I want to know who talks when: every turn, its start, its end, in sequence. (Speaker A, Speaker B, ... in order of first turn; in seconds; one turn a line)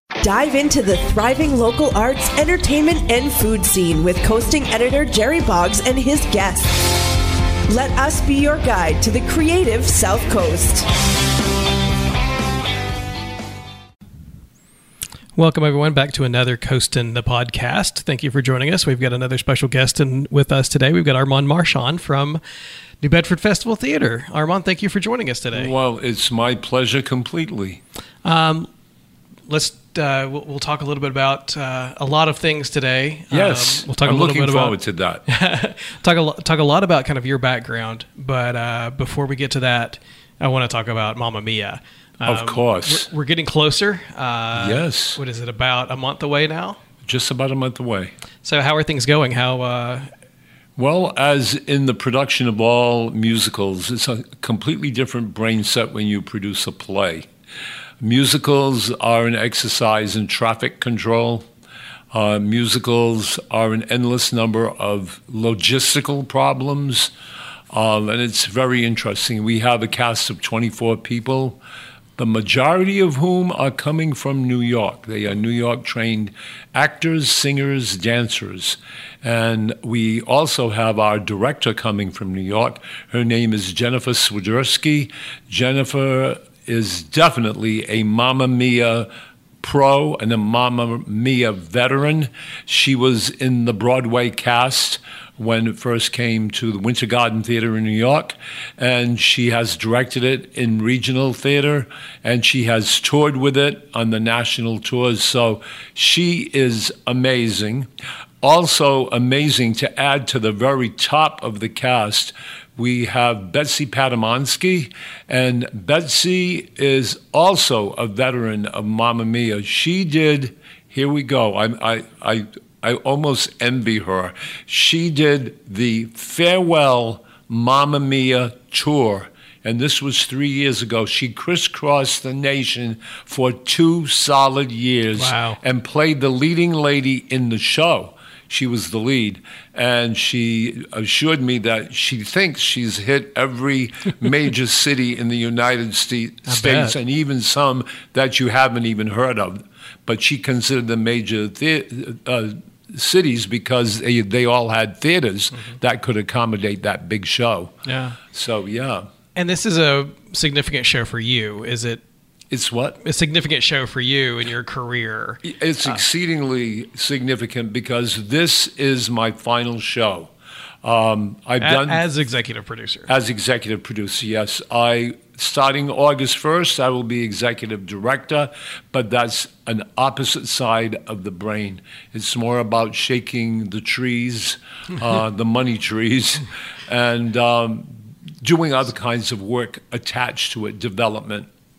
Speaker A: 0.2-7.1
Speaker A: 7.7-10.9
Speaker B: 15.3-22.4
Speaker B: 23.0-25.7
Speaker C: 25.5-27.8
Speaker B: 28.2-28.7
Speaker B: 29.5-46.8
Speaker C: 33.3-35.2
Speaker C: 42.2-43.1
Speaker C: 44.5-45.2
Speaker C: 47.0-48.1
Speaker B: 48.4-50.1
Speaker C: 50.8-57.3
Speaker C: 58.0-61.5
Speaker C: 62.1-67.1
Speaker C: 67.7-71.6
Speaker C: 72.2-89.1
Speaker C: 89.6-107.9
Speaker C: 108.4-157.8
Speaker B: 135.2-135.6
Speaker B: 146.5-146.9
Speaker B: 157.8-158.2
Speaker C: 158.3-159.1
Speaker B: 159.3-162.0
Speaker C: 162.5-163.0
Speaker B: 163.0-165.4
Speaker C: 165.4-170.3
Speaker C: 170.8-172.0
Speaker B: 171.6-173.1
Speaker C: 173.1-191.5